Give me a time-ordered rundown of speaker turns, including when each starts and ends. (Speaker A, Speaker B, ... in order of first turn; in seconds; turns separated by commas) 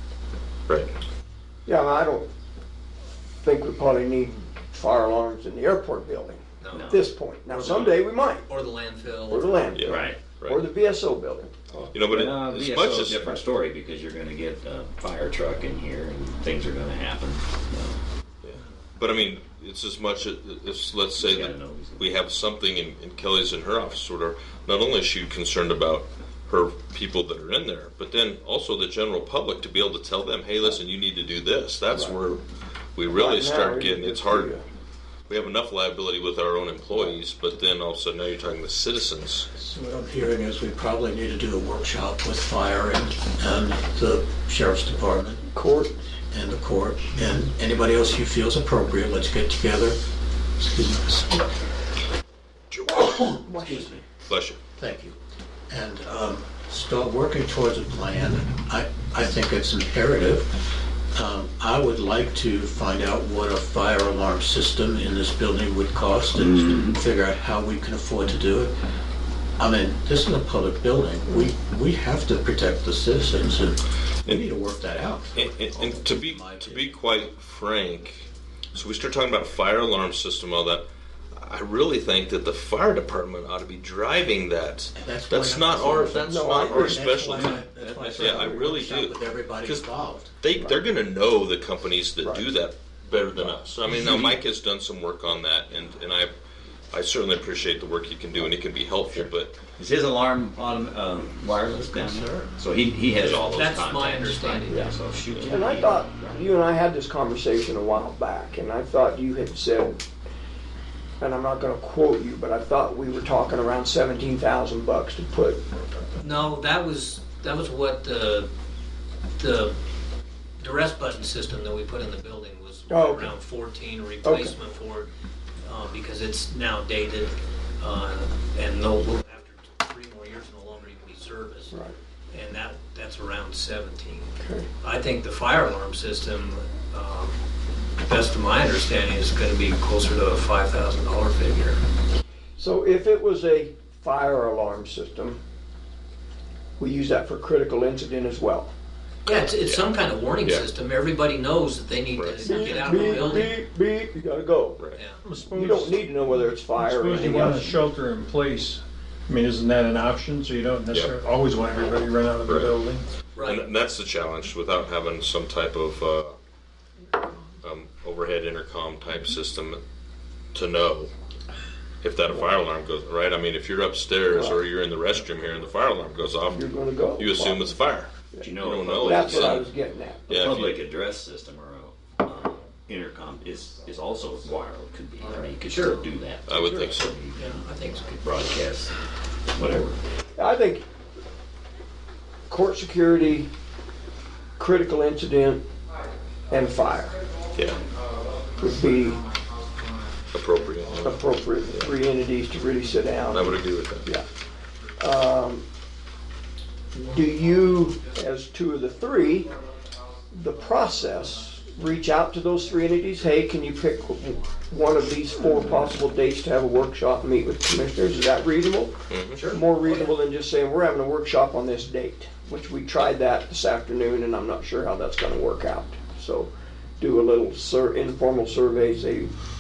Speaker A: 1.7-2.3, Speaker A: 3.4-8.4, Speaker B: 6.6-6.9, Speaker C: 6.7-8.0, Speaker B: 7.7-9.7, Speaker A: 9.3-11.9, Speaker D: 9.7-10.6, Speaker C: 9.9-10.2, Speaker D: 11.9-13.4, Speaker C: 12.1-18.0, Speaker D: 18.4-32.4, Speaker C: 21.2-22.1, Speaker A: 31.9-32.2, Speaker D: 33.0-34.6, Speaker A: 33.1-34.6, Speaker D: 35.3-39.5, Speaker E: 39.5-45.5, Speaker A: 45.5-45.9, Speaker E: 46.3-50.0, Speaker E: 50.6-51.5, Speaker A: 53.0-54.0, Speaker E: 53.5-54.0, Speaker D: 54.3-54.6, Speaker E: 54.8-55.2, Speaker E: 55.7-68.8, Speaker C: 66.4-66.9, Speaker E: 69.6-76.9, Speaker D: 75.3-89.9, Speaker E: 85.0-90.3, Speaker A: 86.3-87.0, Speaker C: 87.5-88.6, Speaker D: 90.4-96.3, Speaker A: 90.5-90.8, Speaker A: 92.2-92.5, Speaker C: 93.9-94.4, Speaker D: 96.9-99.6, Speaker C: 99.1-106.4, Speaker E: 102.0-102.5, Speaker B: 103.1-104.9, Speaker A: 105.5-110.0, Speaker A: 111.2-115.6, Speaker B: 116.2-118.5, Speaker B: 119.4-119.8, Speaker B: 120.6-125.1, Speaker A: 122.9-123.3, Speaker A: 124.2-124.5, Speaker B: 125.6-131.8, Speaker B: 132.3-137.4, Speaker A: 134.4-134.7, Speaker B: 138.0-141.8, Speaker A: 142.6-145.4, Speaker A: 146.8-148.7, Speaker B: 149.3-153.6, Speaker D: 149.3-149.9, Speaker D: 152.2-153.1, Speaker A: 152.4-154.8, Speaker D: 154.8-155.0, Speaker F: 155.2-163.1, Speaker A: 155.5-157.8, Speaker D: 162.4-162.8, Speaker B: 163.3-163.7, Speaker D: 163.4-166.4, Speaker D: 167.6-169.8, Speaker D: 170.5-171.1, Speaker D: 172.0-179.7, Speaker A: 174.3-174.7, Speaker A: 176.5-177.8, Speaker A: 178.3-180.4, Speaker C: 178.4-179.7, Speaker D: 180.3-180.8, Speaker C: 180.3-190.0, Speaker B: 185.7-186.0, Speaker D: 186.5-187.2, Speaker A: 186.5-186.9, Speaker B: 187.3-188.2, Speaker A: 190.4-190.8, Speaker A: 192.5-193.5, Speaker A: 194.6-195.7, Speaker A: 196.5-197.2, Speaker F: 196.8-201.9, Speaker D: 197.5-197.8, Speaker A: 198.6-199.2, Speaker D: 200.3-201.9, Speaker A: 201.0-204.3, Speaker F: 202.7-203.2, Speaker D: 203.3-204.2, Speaker F: 204.4-205.1, Speaker A: 205.0-205.7, Speaker A: 207.0-209.5, Speaker F: 207.0-208.3, Speaker F: 209.2-215.3, Speaker A: 210.3-229.3, Speaker F: 215.8-216.1, Speaker D: 219.1-219.5, Speaker B: 219.4-220.1